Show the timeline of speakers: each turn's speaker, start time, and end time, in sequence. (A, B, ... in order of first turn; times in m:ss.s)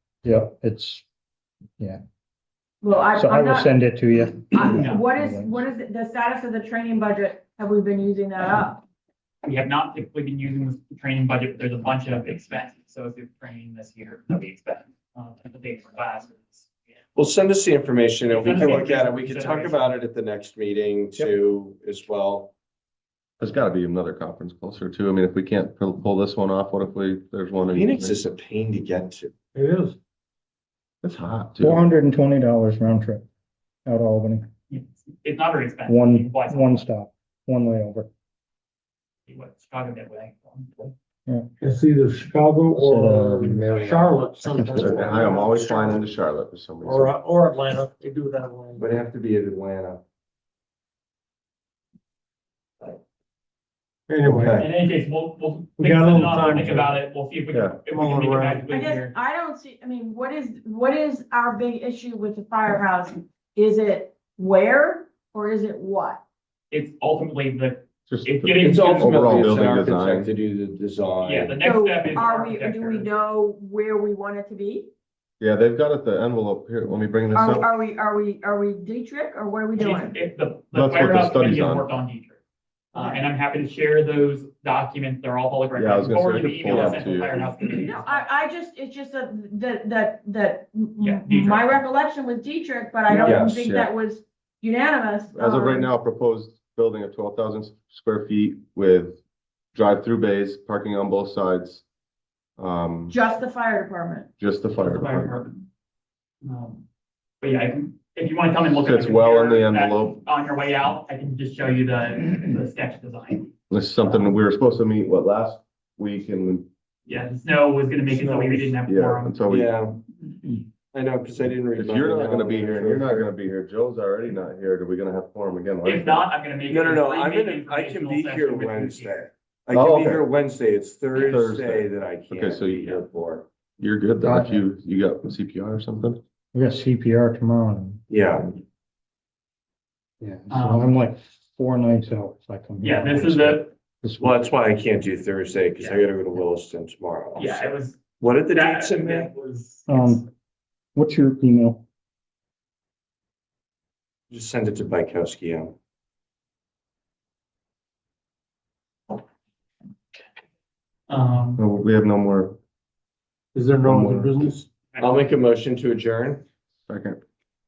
0:00.2-0:01.0 A
0:02.8-0:03.7 B
0:03.1-0:05.6 A
0:04.5-0:08.8 B
0:04.6-0:05.0 C
0:09.4-0:16.7 C
0:17.1-0:22.5 D
0:18.3-0:20.0 C
0:23.4-0:28.2 E
0:27.7-0:29.3 D
0:29.5-0:30.0 F
0:31.0-0:31.8 E
0:31.6-0:33.2 A
0:33.8-0:34.5 A
0:34.7-0:36.8 C
0:35.9-0:38.1 A
0:39.3-0:40.9 C
0:41.6-0:46.0 F
0:42.7-0:43.9 A
0:44.5-0:44.9 A
0:44.7-0:47.1 E
0:46.8-0:48.8 F
0:48.8-0:50.0 E
0:54.1-0:54.6 F
0:54.2-0:54.7 D
0:54.6-0:59.1 C
0:55.8-0:57.0 F
0:57.5-0:57.8 E
0:57.9-0:58.7 F
0:58.7-1:06.2 B
1:06.7-1:09.3 C
1:08.1-1:10.3 E
1:08.6-1:11.5 D
1:11.2-1:13.1 C
1:11.6-1:14.9 B
1:15.4-1:17.7 E
1:17.3-1:20.2 B
1:19.8-1:22.4 C
1:20.7-1:21.9 E
1:22.9-1:28.3 C
1:22.9-1:23.2 B
1:25.8-1:27.3 E
1:26.6-1:27.0 D
1:27.3-1:35.9 B
1:31.0-1:31.8 C
1:33.2-1:33.9 E
1:33.2-1:33.5 D
1:35.3-1:39.2 E
1:39.7-1:41.8 E
1:42.6-1:43.1 E
1:43.1-1:44.3 B
1:44.4-1:45.3 E
1:44.8-1:45.6 C
1:46.4-1:46.8 C
1:47.4-1:53.5 C
1:48.8-1:50.2 E
1:53.7-1:56.7 E
1:57.1-1:59.4 C
1:58.1-1:58.7 D
1:58.8-1:59.7 E
1:59.5-2:00.0 D
2:00.9-2:03.3 D
2:01.7-2:06.3 E
2:05.8-2:09.2 C
2:06.7-2:13.5 D
2:09.7-2:10.2 E
2:11.2-2:13.0 E
2:13.8-2:16.2 E
2:14.2-2:14.6 A
2:16.5-2:18.0 A
2:18.1-2:18.6 D
2:20.2-2:24.4 A
2:20.5-2:20.9 C
2:22.8-2:23.7 C
2:24.2-2:29.3 D
2:25.8-2:26.1 C
2:27.3-2:30.2 C
2:29.9-2:30.3 A
2:30.9-2:31.8 A
2:34.3-2:35.7 D
2:41.1-2:41.6 C
2:41.6-2:42.6 E
2:43.5-2:44.7 F
2:43.8-2:44.5 E
2:44.9-2:45.3 C
2:45.0-2:46.4 D
2:46.9-2:47.2 E